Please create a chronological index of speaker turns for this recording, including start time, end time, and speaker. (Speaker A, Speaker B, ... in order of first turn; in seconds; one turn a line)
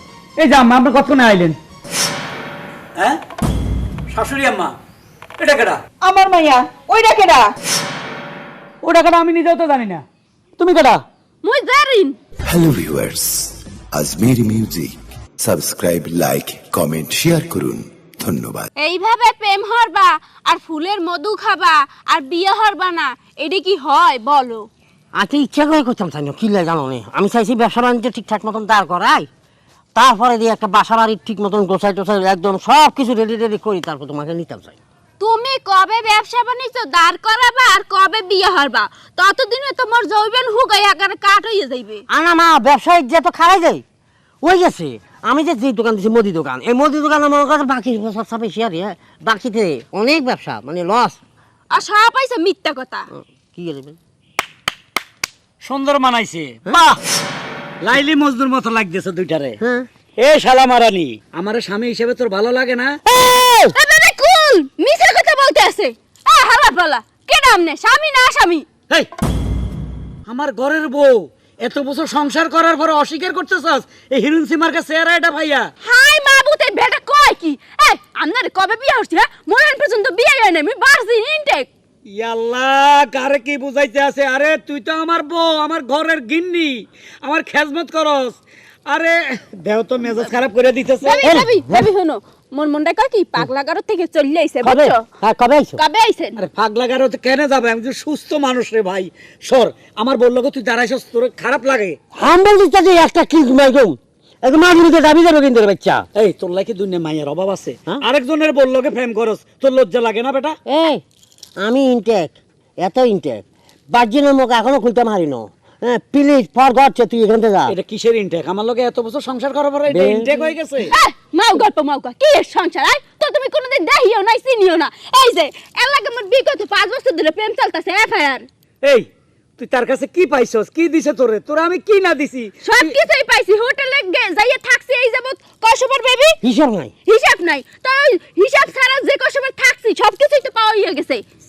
Speaker A: 0.4-1.6
Speaker A: 4.1-4.8
Speaker A: 5.4-5.8
Speaker A: 8.8-10.1
Speaker A: 10.6-11.0
Speaker B: 11.4-12.2
Speaker C: 12.5-18.7
Speaker B: 18.8-24.7
Speaker D: 25.1-29.3
Speaker D: 29.9-34.8
Speaker B: 35.2-42.0
Speaker D: 42.1-43.8
Speaker D: 44.4-51.2
Speaker B: 51.7-53.0
Speaker D: 53.1-54.0
Speaker A: 55.6-56.9
Speaker A: 57.8-59.6
Speaker D: 59.6-59.9
Speaker A: 60.2-63.0
Speaker D: 63.1-63.8
Speaker B: 63.8-68.7
Speaker A: 70.3-75.7
Speaker B: 75.8-81.7
Speaker A: 82.1-91.2
Speaker B: 91.0-95.0
Speaker D: 91.2-91.9
Speaker D: 94.6-95.8
Speaker B: 95.8-96.4
Speaker A: 96.4-102.0
Speaker D: 102.1-106.1
Speaker A: 106.2-110.6
Speaker D: 110.7-111.0
Speaker D: 111.6-117.8
Speaker A: 117.7-120.9
Speaker D: 119.9-120.9
Speaker B: 120.9-128.5
Speaker A: 128.8-132.9
Speaker B: 132.6-136.4
Speaker D: 136.4-136.9
Speaker B: 137.1-141.2